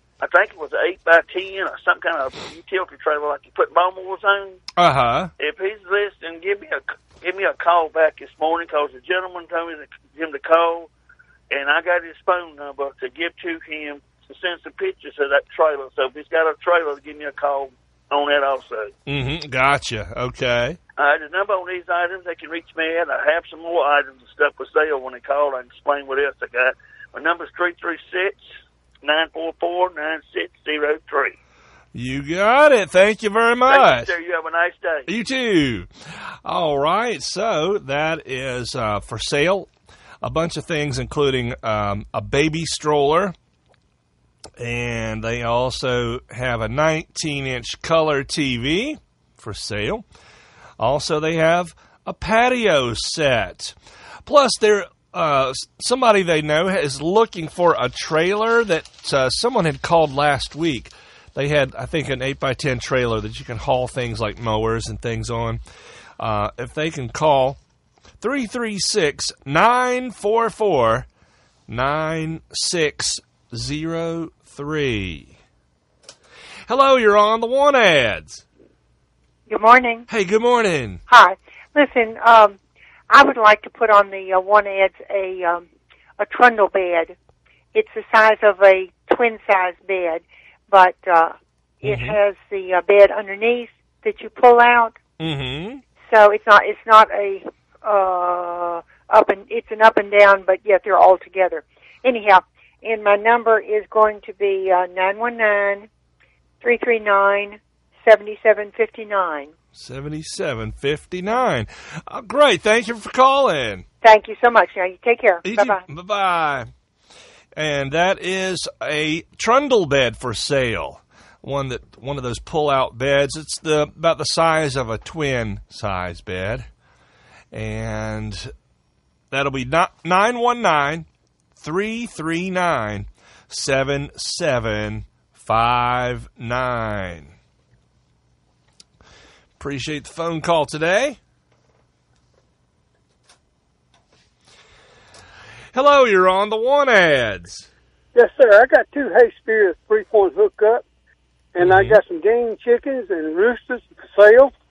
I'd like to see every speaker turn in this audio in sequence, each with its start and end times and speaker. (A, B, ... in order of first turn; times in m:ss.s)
0:00.2-0:04.6 A
0:04.8-0:05.3 B
0:05.4-0:10.9 A
0:11.5-0:18.9 A
0:19.1-0:20.8 B
0:21.0-0:28.4 A
0:29.0-0:31.4 A
0:31.9-0:34.1 B
0:33.7-0:35.1 A
0:35.1-0:35.9 B
0:36.4-0:39.7 B
0:40.2-0:43.4 B
0:44.6-0:50.1 B
0:50.8-1:05.6 B
1:06.2-1:07.6 B
1:08.2-1:11.1 B
1:11.7-1:15.4 B
1:16.7-1:18.4 B
1:19.5-1:20.1 C
1:20.1-1:21.0 B
1:21.1-1:22.6 C
1:23.1-1:25.7 C
1:26.2-1:27.2 C
1:27.7-1:35.0 C
1:31.8-1:32.2 B
1:35.2-1:35.8 B
1:36.0-1:45.9 C
1:46.6-1:49.5 C
1:49.8-1:53.8 B
1:54.0-1:55.8 C
1:55.4-1:56.7 B
1:57.6-2:06.7 B
2:07.5-2:08.5 B
2:09.3-2:11.1 B
2:11.6-2:17.3 B
2:19.6-2:21.2 B
2:25.7-2:27.7 B
2:28.2-2:30.8 D
2:31.6-2:34.5 D
2:31.6-2:32.0 B